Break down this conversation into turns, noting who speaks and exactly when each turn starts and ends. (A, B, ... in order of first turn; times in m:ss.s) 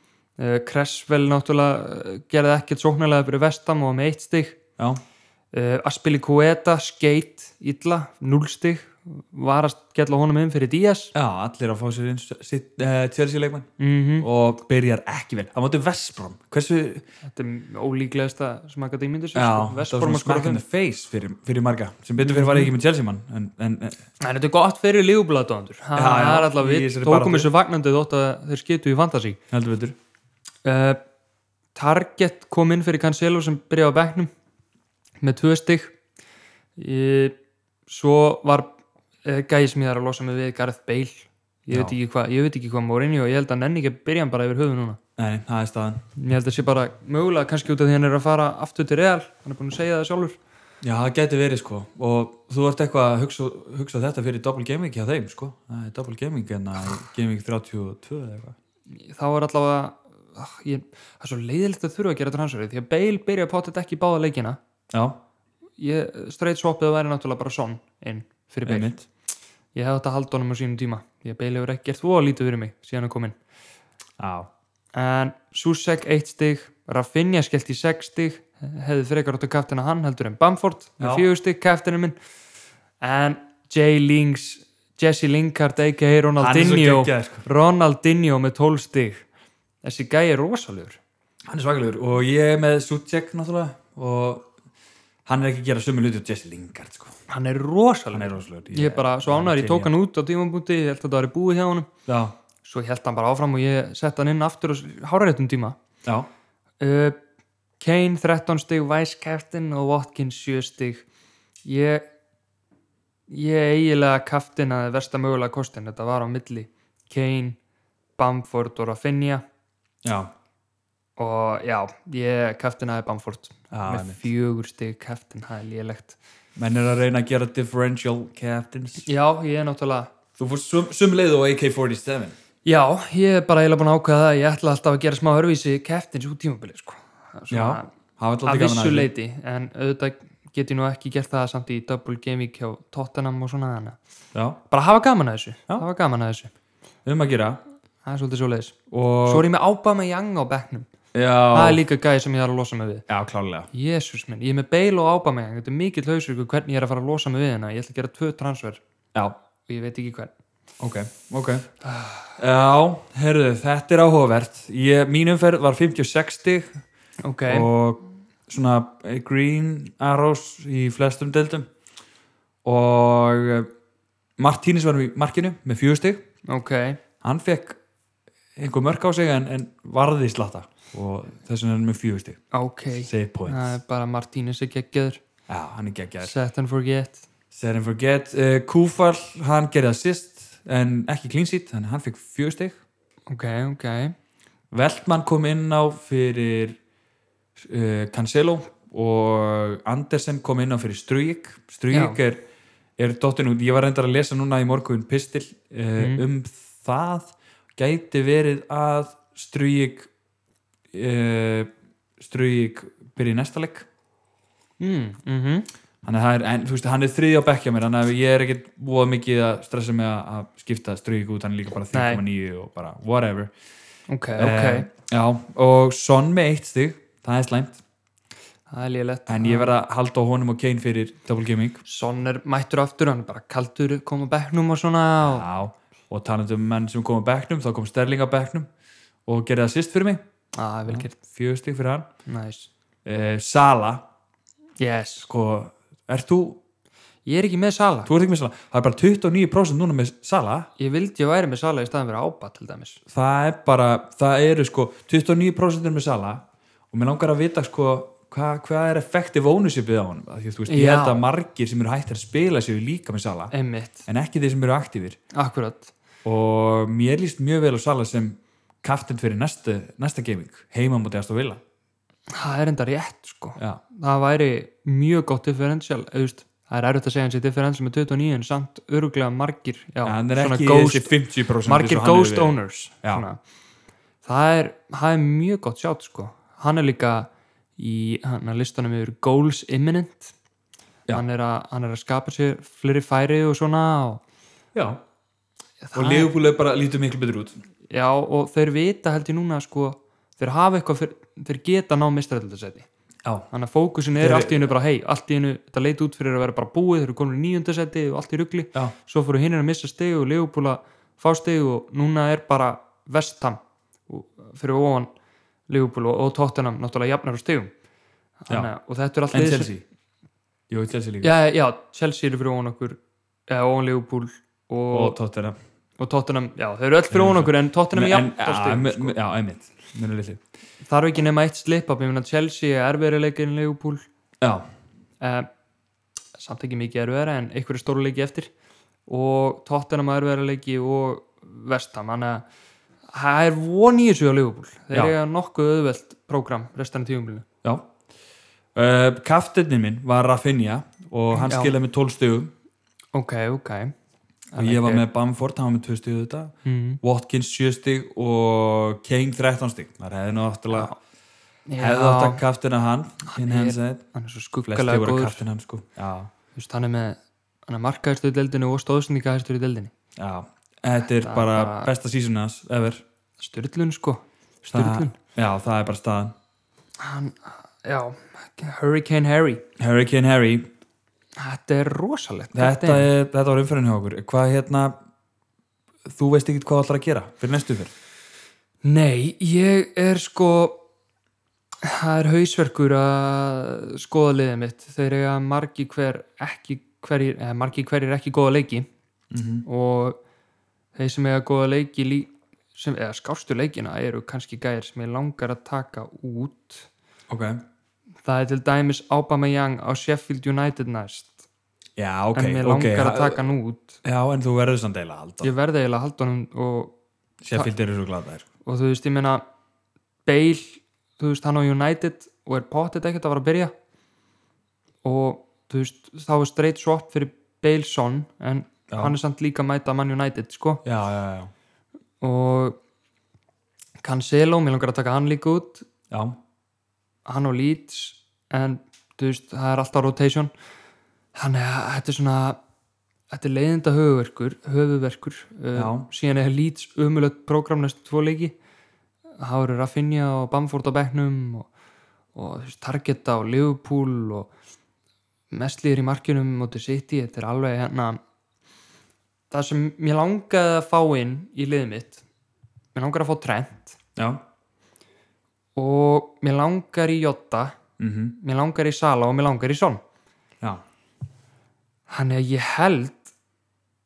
0:00.4-0:04.6 A
0:05.5-0:11.1 A
0:11.2-0:17.0 B
0:13.8-0:14.3 A
0:17.3-0:20.6 A
0:19.3-0:24.0 B
0:22.2-0:22.7 A
0:24.2-0:29.4 A
0:26.0-0:27.5 B
0:29.5-0:30.0 B
0:30.6-0:31.0 A
0:31.8-0:34.3 A
0:35.2-0:36.0 A
0:36.8-0:37.4 A
0:37.9-0:45.0 A
0:41.7-0:42.0 B
0:45.2-0:46.0 B
0:46.2-0:50.4 A
0:50.8-0:58.6 B
0:58.9-1:04.6 A
1:04.9-1:05.2 B
1:05.8-1:08.9 A
1:08.6-1:09.1 B
1:09.7-1:13.4 A
1:14.2-1:14.5 B
1:14.9-1:22.2 A
1:21.0-1:21.3 B
1:23.0-1:29.2 A
1:26.4-1:27.5 B
1:29.8-1:31.0 A
1:31.5-1:34.5 B
1:35.3-1:37.2 B
1:37.3-1:41.9 A
1:38.1-1:39.9 B
1:42.1-1:42.4 B
1:42.6-1:45.8 A
1:46.8-1:47.2 A
1:47.8-1:51.0 A
1:51.6-1:52.0 A
1:53.3-1:57.6 A
1:58.2-1:59.4 A
2:00.0-2:00.3 B
2:01.2-2:06.2 A
2:03.7-2:04.2 B
2:06.6-2:09.1 B
2:09.0-2:10.1 A
2:10.4-2:12.4 B
2:12.6-2:17.9 A
2:17.5-2:19.1 B
2:18.4-2:24.0 A
2:24.3-2:24.6 B
2:24.7-2:26.5 A
2:27.0-2:27.6 B
2:28.0-2:30.9 A
2:28.9-2:29.5 B
2:31.1-2:31.8 B
2:31.5-2:33.1 A
2:33.1-2:33.7 B
2:33.7-2:38.8 A
2:39.7-2:40.3 A
2:40.8-2:41.7 B
2:41.8-2:42.4 A
2:42.4-2:46.8 B
2:47.2-2:47.7 A
2:47.5-2:51.7 B
2:52.6-2:53.7 B
2:54.4-2:56.2 B
2:56.5-2:57.0 A
2:57.2-2:57.8 B
2:58.6-3:02.4 B
3:02.5-3:05.2 A
3:02.9-3:03.8 B
3:05.5-3:06.3 B
3:06.2-3:07.2 A
3:07.5-3:12.8 B
3:13.3-3:14.2 A
3:14.7-3:16.8 B
3:17.6-3:22.4 B
3:21.9-3:22.2 A
3:23.0-3:30.1 B
3:26.0-3:26.2 A
3:30.9-3:33.9 B
3:34.8-3:35.7 A
3:36.0-3:43.5 B
3:41.9-3:42.2 A
3:44.1-3:44.9 A
3:44.4-3:47.8 B
3:48.7-3:49.7 A
3:49.3-3:51.8 B
3:51.9-3:55.5 A
3:55.2-3:58.7 B
3:59.3-4:00.2 B
4:00.5-4:01.1 A
4:00.9-4:02.1 B
4:02.3-4:02.7 A
4:03.0-4:04.0 B
4:04.8-4:05.3 A
4:05.3-4:06.6 B
4:07.3-4:08.1 A
4:08.1-4:10.7 B
4:10.8-4:13.0 A
4:13.1-4:23.5 B
4:20.7-4:21.2 A
4:23.5-4:24.1 A
4:24.1-4:25.2 B
4:25.3-4:25.9 A
4:26.2-4:31.6 B
4:32.3-4:41.1 A
4:40.0-4:43.2 B
4:41.6-4:43.4 A
4:44.2-4:50.3 A
4:51.1-4:54.2 A
4:54.8-4:55.0 B
4:55.8-4:56.3 A
4:55.9-4:57.6 B
4:57.9-5:02.9 A
5:03.5-5:15.1 A
5:04.2-5:04.7 B
5:15.7-5:17.7 A
5:18.4-5:19.7 A
5:19.3-5:19.8 B
5:20.7-5:21.3 B
5:21.2-5:25.2 A
5:24.9-5:25.6 B
5:26.0-5:29.2 A
5:27.1-5:30.4 B
5:30.9-5:34.1 A
5:34.4-5:34.7 B
5:35.2-5:35.5 A
5:36.4-5:38.5 A
5:39.1-5:42.5 A
5:43.1-5:47.5 A
5:47.6-5:47.9 B
5:48.8-5:52.5 B
5:51.3-5:51.7 A
5:53.1-5:53.9 A
5:54.5-5:55.0 A
5:54.6-6:00.9 B
5:56.6-5:57.0 A
6:01.7-6:02.4 A
6:01.8-6:04.0 B
6:03.3-6:05.4 A
6:04.7-6:06.3 B
6:06.6-6:09.9 A
6:10.2-6:13.0 B
6:11.2-6:11.9 A
6:13.4-6:15.2 A
6:14.7-6:16.4 B
6:17.0-6:19.6 A
6:19.8-6:20.7 B
6:21.4-6:23.1 A
6:22.5-6:25.0 B
6:26.1-6:27.9 B
6:28.8-6:30.8 A
6:31.8-6:38.9 A
6:39.3-6:39.7 B
6:39.6-6:40.2 A
6:41.0-6:46.9 A
6:47.3-6:47.6 B
6:48.2-6:51.5 A
6:52.0-6:53.4 B
6:52.4-6:54.0 A
6:54.0-6:55.5 B
6:55.4-6:56.9 A
6:57.4-6:58.5 B
6:58.6-6:59.4 A
7:00.3-7:03.7 A
7:05.0-7:10.8 A
7:08.9-7:09.2 B
7:10.8-7:11.5 B
7:12.2-7:12.8 A
7:14.0-7:15.9 A
7:16.1-7:16.4 B
7:17.3-7:20.5 A
7:21.4-7:22.6 A
7:23.3-7:28.6 A
7:25.7-7:26.1 B
7:29.4-7:31.7 A
7:32.4-7:34.5 A
7:35.5-7:38.2 A
7:39.5-7:42.2 A
7:43.0-7:44.0 A
7:44.2-7:44.4 B
7:45.8-7:47.8 A
7:48.0-7:48.4 B
7:48.4-7:50.0 A
7:52.1-7:53.3 A